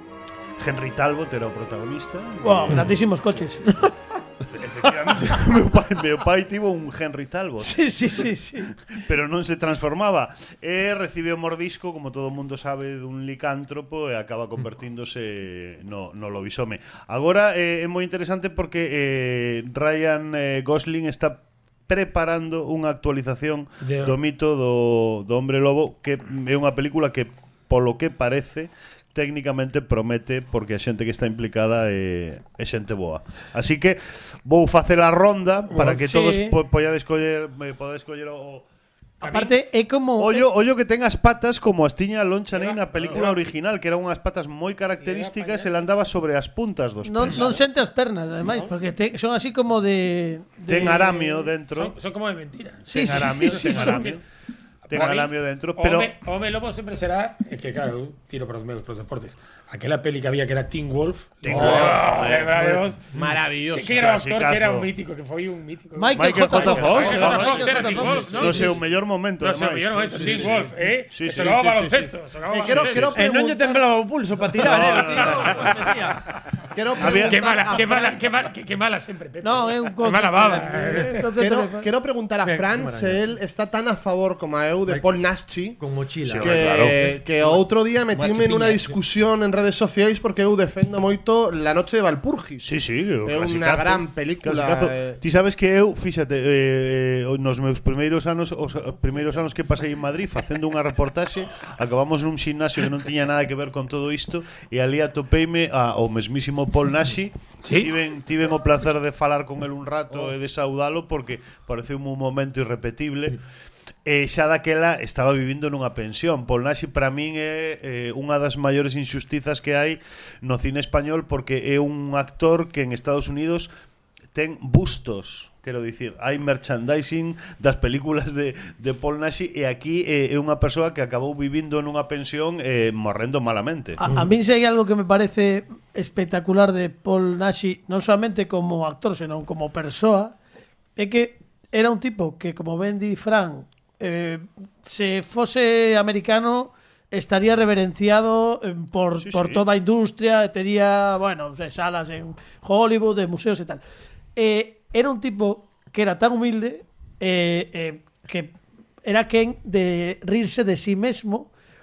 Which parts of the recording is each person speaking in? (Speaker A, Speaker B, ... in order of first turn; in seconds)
Speaker A: 0.6-3.0, 4.5-8.3, 8.9-38.6, 40.2-47.6, 50.6-51.9, 52.9-54.2, 54.9-56.1, 61.4-62.8, 63.9-64.9, 66.1-71.7, 72.7-73.1, 74.6-75.8, 77.0-78.0, 86.2-87.0, 92.6-113.4, 114.0-123.7, 124.3-134.0, 149.2-149.6
Speaker B: 2.4-3.9, 7.6-8.7, 35.7-36.5, 39.2-40.5, 47.0-51.5, 52.9-54.1, 66.0-68.7, 79.4-81.9, 134.0-140.3, 141.0-153.8, 154.3-158.5, 159.0-161.5
Speaker C: 23.8-24.1, 39.2-39.5, 42.5-43.4, 45.0-45.7, 47.2-47.5, 51.7-54.2, 54.9-63.1, 63.7-68.8, 69.4-73.2, 74.6-76.4, 77.0-81.2, 107.6-107.9
Speaker D: 61.5-61.9, 73.1-76.2, 82.5-83.2, 84.9-85.1, 85.8-86.8, 88.1-89.0
Speaker E: 61.6-62.1, 63.1-64.0, 70.1-70.6, 71.3-73.8, 76.7-78.2, 81.3-85.8, 86.4-92.7, 93.2-95.2